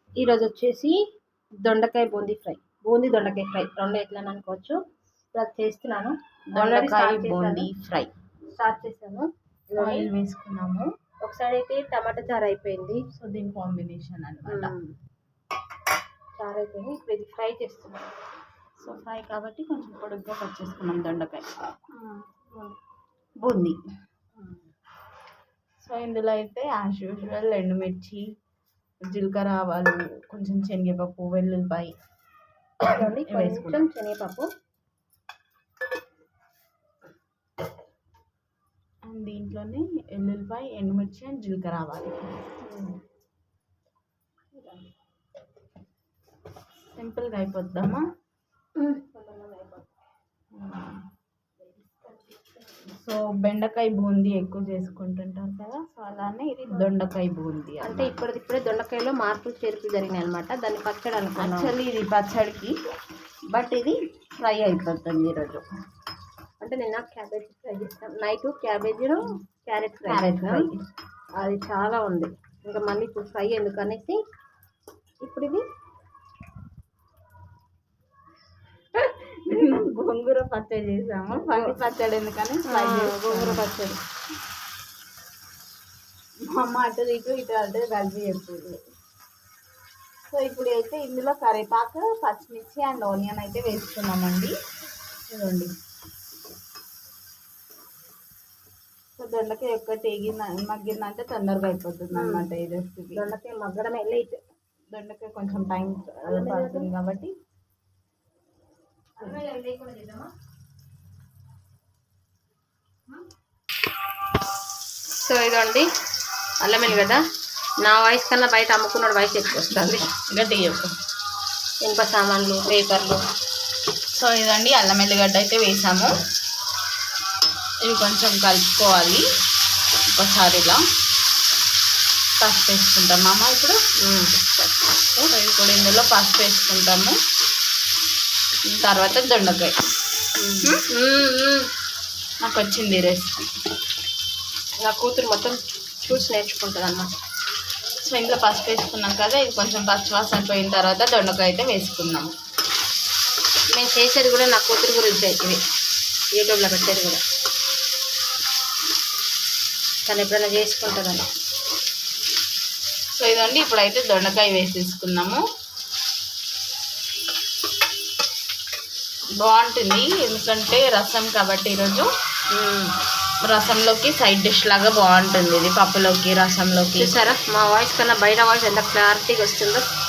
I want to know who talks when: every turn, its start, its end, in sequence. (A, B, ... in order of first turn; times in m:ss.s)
0:00.2-0:01.0 A
0:01.6-0:04.8 A
0:05.3-0:07.7 A
0:06.5-0:08.1 B
0:08.5-0:10.1 A
0:09.7-0:10.9 B
0:11.2-0:13.0 A
0:13.1-0:14.7 B
0:14.4-0:14.9 A
0:16.4-0:18.1 A
0:18.8-0:21.5 B
0:21.9-0:22.8 A
0:23.4-0:23.8 B
0:24.4-0:24.6 A
0:25.8-0:28.2 B
0:29.1-0:31.9 B
0:32.8-0:34.5 A
0:33.2-0:33.8 B
0:39.0-0:42.2 B
0:42.6-0:43.0 A
0:44.5-0:44.9 A
0:46.9-0:48.0 B
0:48.8-0:49.9 A
0:50.5-0:51.0 B
0:51.6-0:52.6 A
0:52.9-0:58.1 B
0:57.8-1:01.7 A
1:01.4-1:02.7 B
1:03.5-1:05.6 B
1:06.6-1:10.7 A
1:10.0-1:10.8 B
1:11.4-1:14.2 A
1:15.2-1:15.6 A
1:18.9-1:23.6 B
1:21.3-1:21.8 A
1:22.6-1:24.0 A
1:26.5-1:28.8 B
1:30.3-1:34.5 B
1:35.3-1:35.7 B
1:39.2-1:43.2 B
1:42.1-1:42.4 A
1:43.1-1:44.4 A
1:44.9-1:47.3 B
1:46.3-1:46.9 A
1:49.2-1:50.3 A
1:55.1-1:55.9 A
1:56.6-1:57.2 A
1:57.8-2:00.1 A
2:00.3-2:00.9 B
2:01.8-2:03.2 A
2:04.1-2:06.1 B
2:07.8-2:09.2 B
2:10.1-2:10.8 B
2:12.4-2:13.8 B
2:14.0-2:15.3 A
2:15.3-2:17.1 B
2:18.7-2:19.8 B
2:20.4-2:21.7 A
2:22.4-2:23.5 B
2:24.8-2:27.2 A
2:28.0-2:32.3 B
2:33.7-2:35.6 A
2:36.3-2:37.2 A
2:40.1-2:41.3 A
2:43.2-2:45.4 B
2:49.4-2:52.1 B
2:52.5-2:52.9 A
2:53.4-2:57.1 B
2:57.0-2:59.8 A